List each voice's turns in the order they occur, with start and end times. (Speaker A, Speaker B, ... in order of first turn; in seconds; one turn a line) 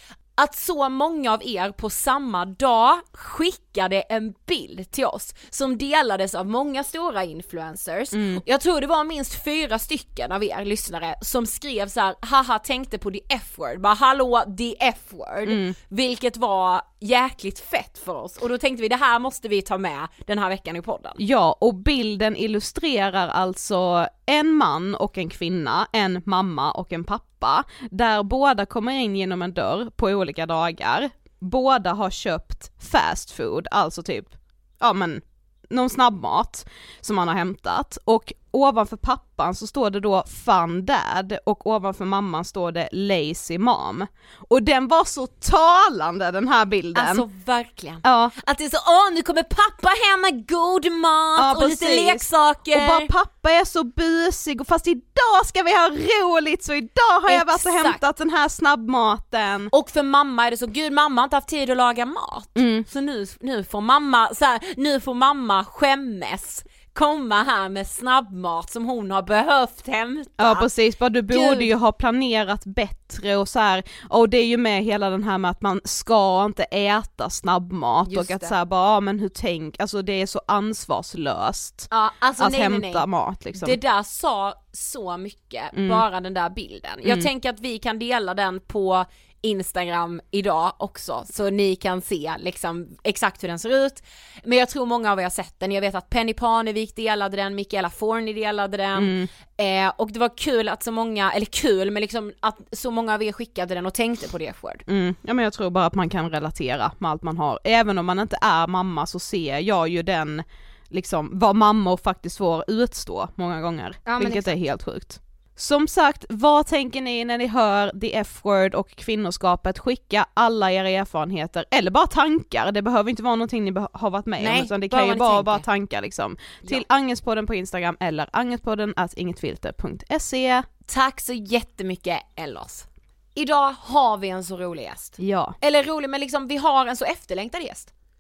Speaker A: 0.4-21.2
Speaker B: 8.1-8.4
Speaker B: 15.4-15.7
Speaker B: 21.2-47.2
Speaker A: 46.9-53.1
Speaker B: 48.0-48.3
Speaker B: 51.4-59.7
Speaker A: 57.3-58.0
Speaker A: 59.7-70.7
Speaker B: 62.5-62.9
Speaker B: 70.4-83.8
Speaker A: 71.3-71.7
Speaker A: 78.1-78.5
Speaker A: 81.9-104.8
Speaker B: 85.7-86.0
Speaker B: 99.0-99.3
Speaker B: 104.9-130.7
Speaker A: 114.1-114.5
Speaker A: 124.4-125.6
Speaker A: 130.9-137.9
Speaker B: 135.2-135.6